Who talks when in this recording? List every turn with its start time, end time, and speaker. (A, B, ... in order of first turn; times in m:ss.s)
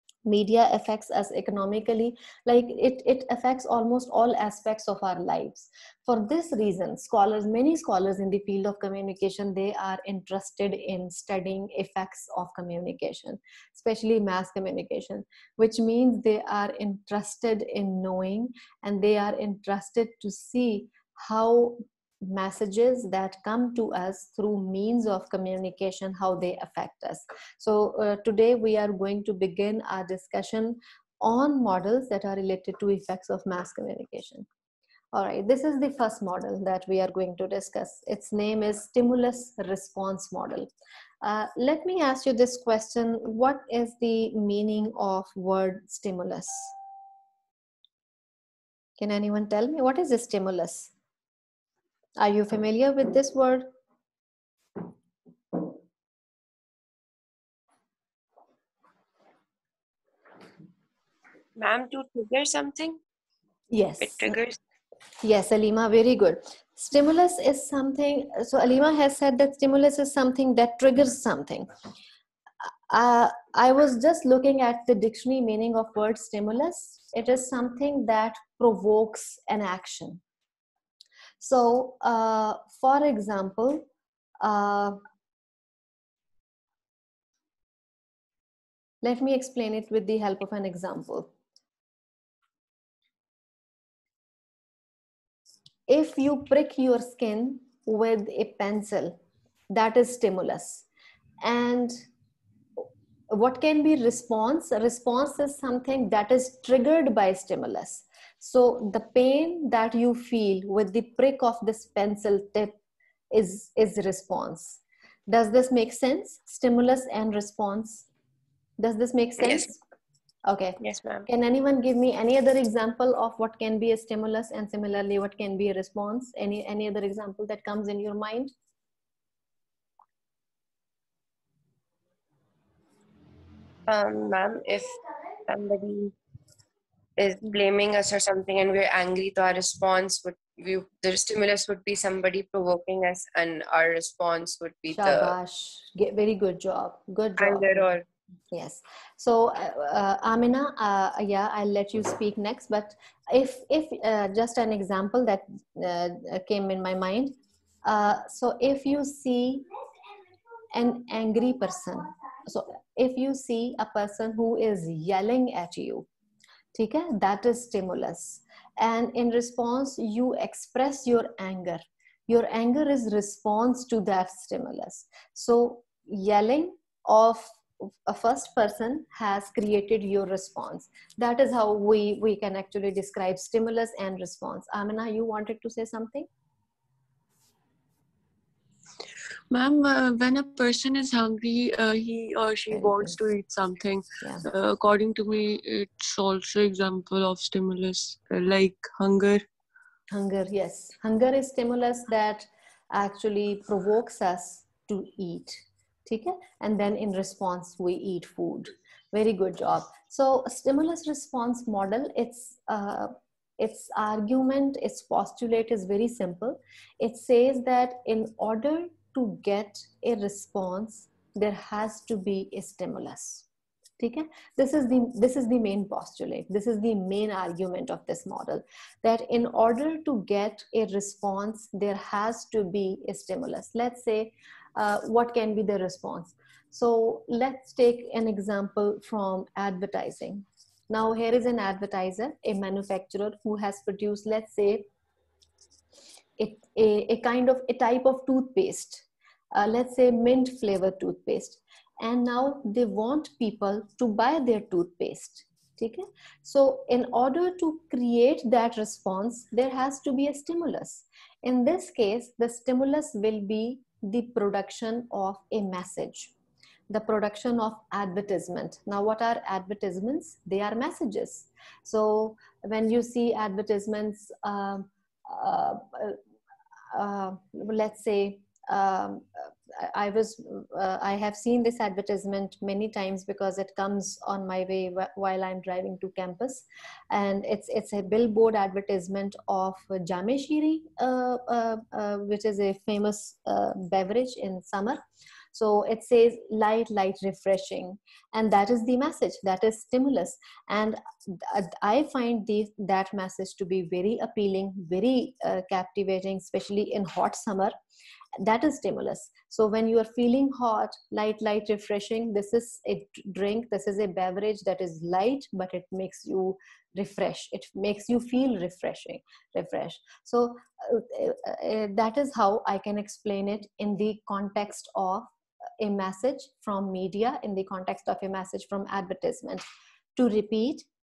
0:00.2-0:34.4 A
0:35.1-0:40.7 A
0:41.2-0:46.7 A
0:49.0-0:50.9 A
0:52.2-0:53.7 A
1:01.6-1:03.0 B
1:03.7-1:04.3 A
1:04.0-1:04.6 B
1:05.2-1:11.7 A
1:12.9-1:20.2 A
1:21.4-1:23.9 A
1:24.4-1:25.0 A
1:29.0-1:31.3 A
1:35.9-1:39.2 A
1:39.7-1:40.8 A
1:41.4-1:42.0 A
1:43.3-1:52.8 A
1:53.3-1:58.1 A
1:58.8-1:59.8 A
1:59.4-1:59.7 B
2:00.4-2:08.5 A
2:00.8-2:01.2 B
2:13.9-2:16.1 B
2:17.2-2:25.3 B
2:24.9-2:27.9 A
2:27.4-2:28.0 B
2:28.5-2:39.6 A
2:40.7-2:46.0 A
2:46.7-3:06.3 A
3:09.5-3:19.4 C
3:12.7-3:13.2 A
3:20.1-3:43.4 A
3:44.0-4:04.9 A
4:06.4-4:26.3 A
4:26.9-4:36.2 A
4:36.9-4:55.0 A
4:55.5-5:07.7 A
5:08.4-5:29.6 A
5:30.2-5:30.8 A